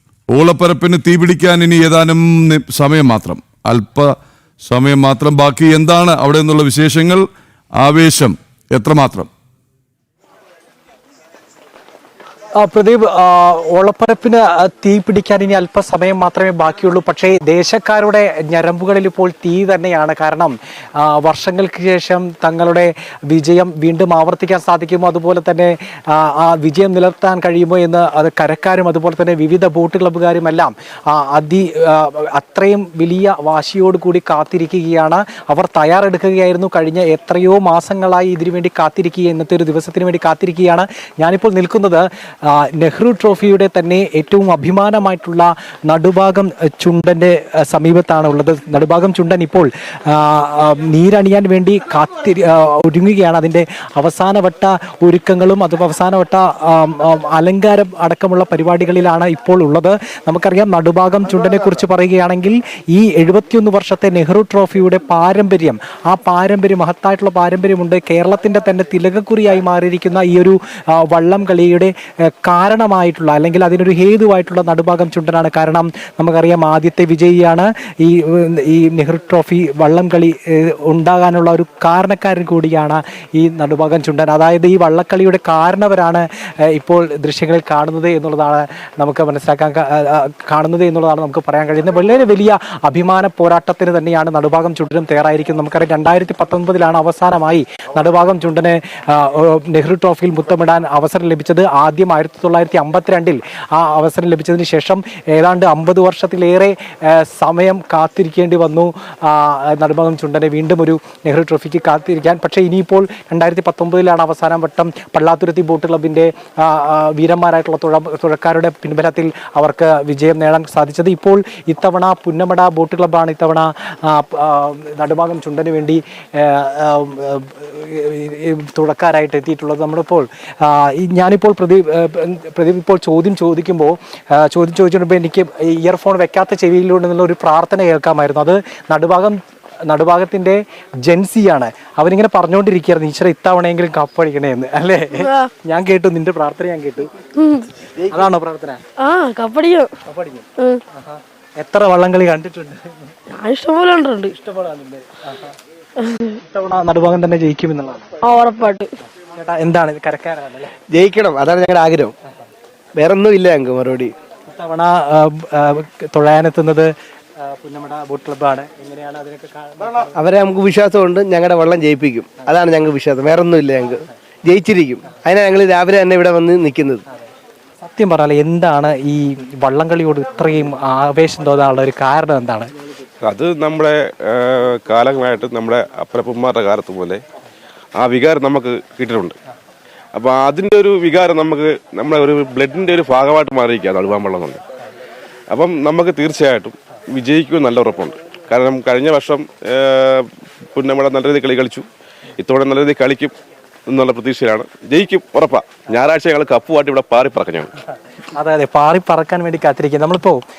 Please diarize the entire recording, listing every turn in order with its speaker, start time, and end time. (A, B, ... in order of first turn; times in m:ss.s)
0:00.3-0:07.2 A
0:07.8-0:09.3 A
0:12.6-2:27.1 B
2:25.2-2:25.5 C
2:27.4-2:27.7 C
2:28.0-2:28.8 B
2:29.0-2:29.9 C
2:30.1-2:33.1 B
2:33.3-2:34.3 C
2:34.3-2:35.5 B
2:36.0-2:36.3 C
2:36.3-2:38.1 B
2:38.2-2:38.9 C
2:39.3-2:40.7 B
2:40.9-2:42.1 D
2:43.0-2:44.1 D
2:44.5-2:50.2 B
2:50.2-2:57.0 D
2:57.8-3:02.7 B
3:03.2-3:07.2 E
3:08.0-3:09.4 E
3:10.2-3:14.6 E
3:15.5-3:21.9 E
3:22.4-3:23.4 E
3:23.9-3:27.7 E
3:28.3-3:30.4 B